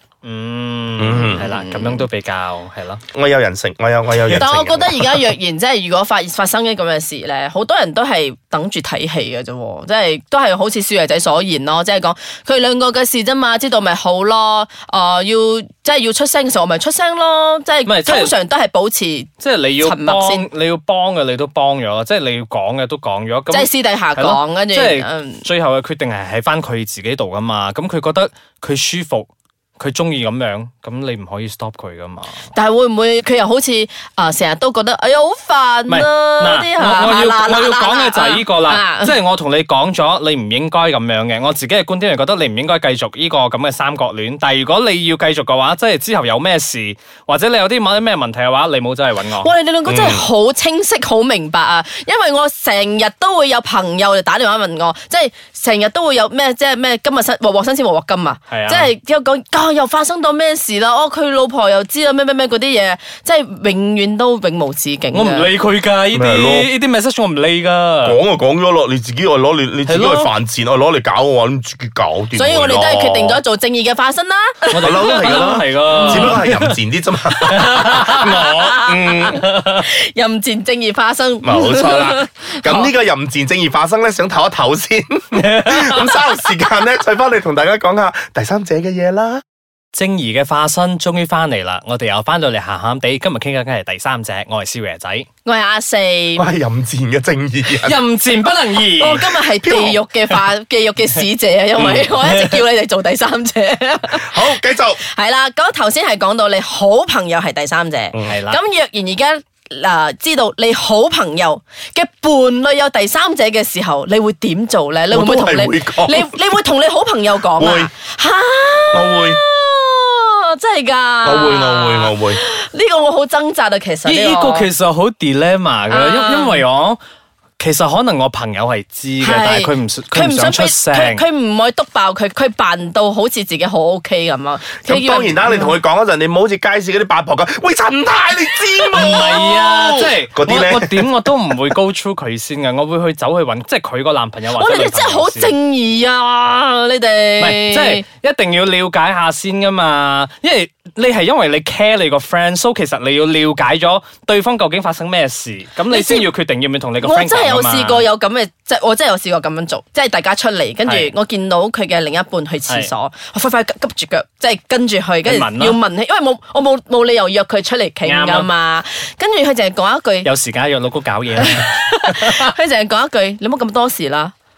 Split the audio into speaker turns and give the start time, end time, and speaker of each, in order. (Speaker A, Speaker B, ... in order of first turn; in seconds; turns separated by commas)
Speaker A: 0.2-3.0, Speaker B: 1.0-2.0, Speaker B: 3.1-5.2, Speaker C: 4.4-20.5, Speaker A: 17.9-18.3, Speaker A: 19.4-32.4, Speaker C: 23.5-25.5, Speaker C: 32.5-39.2, Speaker A: 35.9-49.5, Speaker C: 49.4-65.5, Speaker B: 49.9-50.2, Speaker A: 58.5-58.9, Speaker A: 65.1-68.2, Speaker B: 66.1-66.7, Speaker B: 68.0-73.4, Speaker A: 69.9-70.3, Speaker C: 72.3-75.3, Speaker A: 74.7-76.8, Speaker B: 74.8-79.4, Speaker A: 77.5-78.5, Speaker C: 77.9-82.9, Speaker A: 79.1-79.8, Speaker B: 81.4-89.4, Speaker A: 85.3-86.2, Speaker A: 89.9-95.3, Speaker C: 95.5-96.5, Speaker B: 96.4-98.0, Speaker A: 97.7-100.4, Speaker C: 99.0-124.7, Speaker A: 101.8-102.6, Speaker B: 104.1-105.0, Speaker A: 108.3-108.6, Speaker B: 115.1-116.4, Speaker B: 117.6-117.9, Speaker B: 118.9-119.4, Speaker B: 121.2-122.4, Speaker A: 124.0-127.0, Speaker C: 125.9-126.6, Speaker A: 127.6-131.2, Speaker C: 129.2-135.7, Speaker B: 134.8-141.3, Speaker A: 138.9-145.6, Speaker C: 144.5-148.0, Speaker A: 147.4-158.1, Speaker C: 155.9-156.3, Speaker C: 157.0-170.3, Speaker A: 160.8-161.1, Speaker A: 165.2-165.8, Speaker A: 168.0-168.5, Speaker A: 170.2-172.5, Speaker C: 171.4-174.3